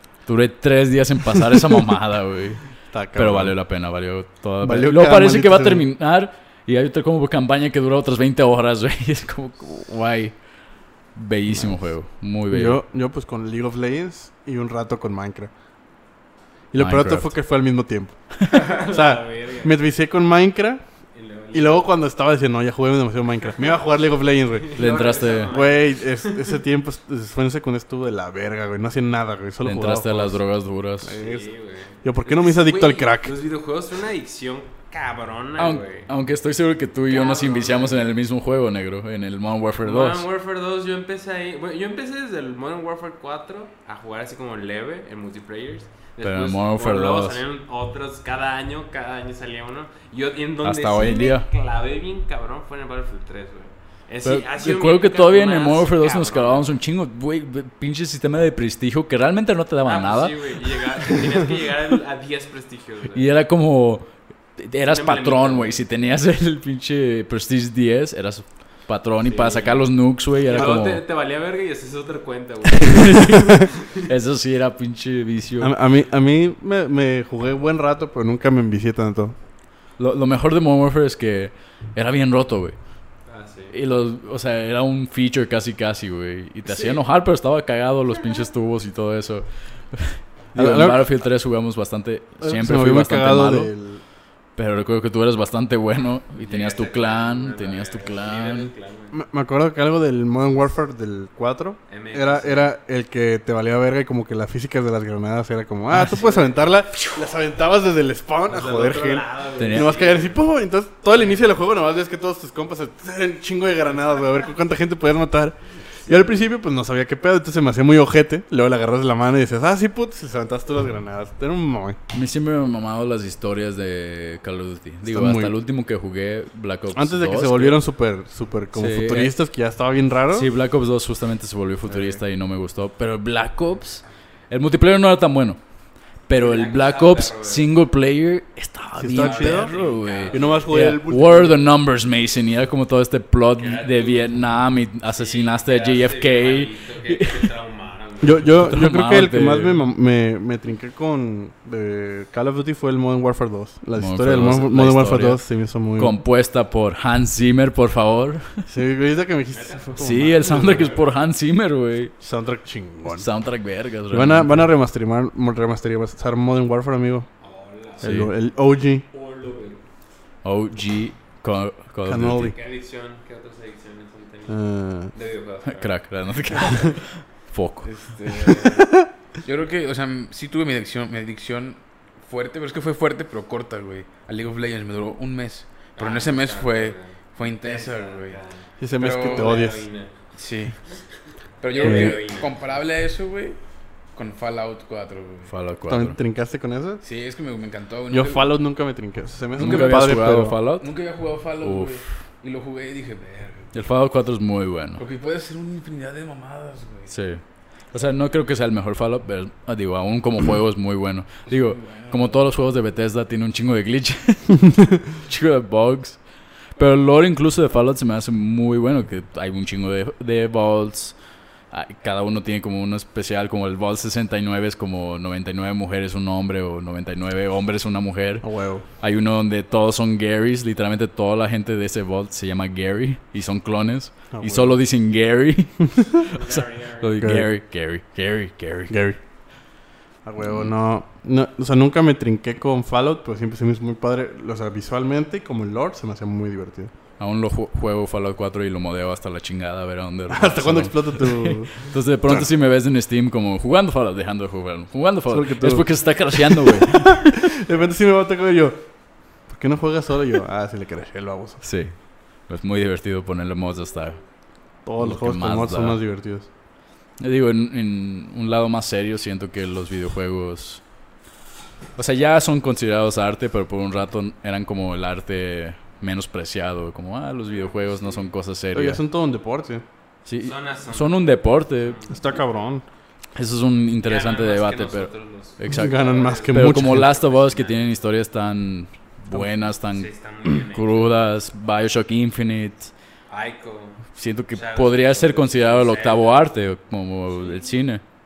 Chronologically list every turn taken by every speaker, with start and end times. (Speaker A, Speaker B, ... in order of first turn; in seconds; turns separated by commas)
Speaker A: 0.3-10.4, Speaker B: 2.9-3.6, Speaker B: 4.6-5.8, Speaker A: 11.1-12.8, Speaker B: 11.5-11.9, Speaker B: 12.5-15.5, Speaker B: 16.7-20.8, Speaker A: 16.8-17.4, Speaker C: 18.5-19.8, Speaker C: 21.1-21.9, Speaker B: 21.5-30.4, Speaker C: 24.6-26.4, Speaker A: 24.8-25.6, Speaker A: 29.6-31.2, Speaker B: 31.0-31.5, Speaker C: 31.2-36.1, Speaker B: 32.0-33.3, Speaker A: 35.6-40.3, Speaker C: 37.1-38.1, Speaker C: 39.8-56.7, Speaker A: 46.2-47.4, Speaker A: 50.6-51.5, Speaker A: 54.2-60.6, Speaker C: 59.8-63.3, Speaker A: 63.1-71.0, Speaker C: 64.8-65.8, Speaker C: 69.2-69.9, Speaker C: 70.5-74.0, Speaker B: 70.5-70.8, Speaker A: 72.8-75.7, Speaker B: 75.6-79.3, Speaker A: 80.0-82.9, Speaker C: 83.3-83.8, Speaker A: 83.7-93.7, Speaker B: 90.5-91.1, Speaker B: 92.4-94.0, Speaker A: 94.6-98.7, Speaker C: 96.4-99.2, Speaker B: 99.1-122.0, Speaker C: 101.9-102.7, Speaker A: 105.9-106.2, Speaker C: 106.2-106.5, Speaker C: 108.5-110.4, Speaker A: 109.6-110.0, Speaker A: 122.1-127.8, Speaker B: 125.1-125.5, Speaker B: 126.9-130.5, Speaker A: 128.7-129.4, Speaker A: 130.3-135.6, Speaker B: 131.9-132.2, Speaker A: 136.3-147.5, Speaker C: 136.3-137.7, Speaker B: 139.0-139.7, Speaker C: 139.1-140.7, Speaker B: 140.3-141.6, Speaker C: 143.6-148.7, Speaker B: 148.2-156.2, Speaker A: 148.5-149.8, Speaker A: 154.0-158.7, Speaker B: 158.7-161.0, Speaker C: 159.5-161.0, Speaker A: 160.0-162.1, Speaker B: 162.2-163.5, Speaker A: 163.1-164.7, Speaker B: 164.1-167.3, Speaker C: 167.4-168.4, Speaker B: 168.0-169.1, Speaker A: 168.0-168.3, Speaker C: 169.1-169.8, Speaker A: 170.4-172.6, Speaker B: 172.1-172.6, Speaker C: 172.4-176.0, Speaker B: 174.5-175.1, Speaker A: 175.7-177.9, Speaker D: 177.8-188.4, Speaker B: 178.5-179.1, Speaker C: 186.0-188.7, Speaker B: 188.8-189.9, Speaker D: 189.0-189.6, Speaker C: 189.2-190.1, Speaker D: 190.3-190.8, Speaker D: 191.6-193.6, Speaker C: 191.7-192.5, Speaker B: 191.8-192.2, Speaker D: 194.1-195.5, Speaker A: 195.5-196.2, Speaker B: 195.9-197.0, Speaker D: 197.0-198.6, Speaker B: 198.1-200.6, Speaker A: 199.6-200.9, Speaker D: 199.6-200.1, Speaker D: 200.8-203.7, Speaker A: 201.6-202.1, Speaker A: 203.7-205.0, Speaker D: 205.0-207.2, Speaker A: 207.1-216.2, Speaker D: 211.5-212.4, Speaker A: 216.8-221.2, Speaker A: 221.7-228.5, Speaker B: 228.4-228.8, Speaker A: 229.0-238.9, Speaker B: 234.3-234.8, Speaker C: 236.3-237.2, Speaker B: 237.2-237.5, Speaker B: 238.9-239.2, Speaker B: 240.2-246.9, Speaker A: 240.4-240.7, Speaker A: 247.2-257.5, Speaker B: 250.3-252.5, Speaker B: 255.3-261.6, Speaker A: 261.6-264.2, Speaker B: 264.9-266.5, Speaker A: 265.0-266.0, Speaker A: 267.2-270.8, Speaker A: 272.0-279.0, Speaker C: 277.7-278.3, Speaker B: 278.7-279.8, Speaker A: 280.2-282.0, Speaker C: 280.4-282.4, Speaker B: 282.1-282.9, Speaker A: 283.4-292.9, Speaker C: 284.0-288.0, Speaker B: 285.7-287.1, Speaker C: 289.8-291.2, Speaker C: 293.3-296.5, Speaker A: 294.1-298.0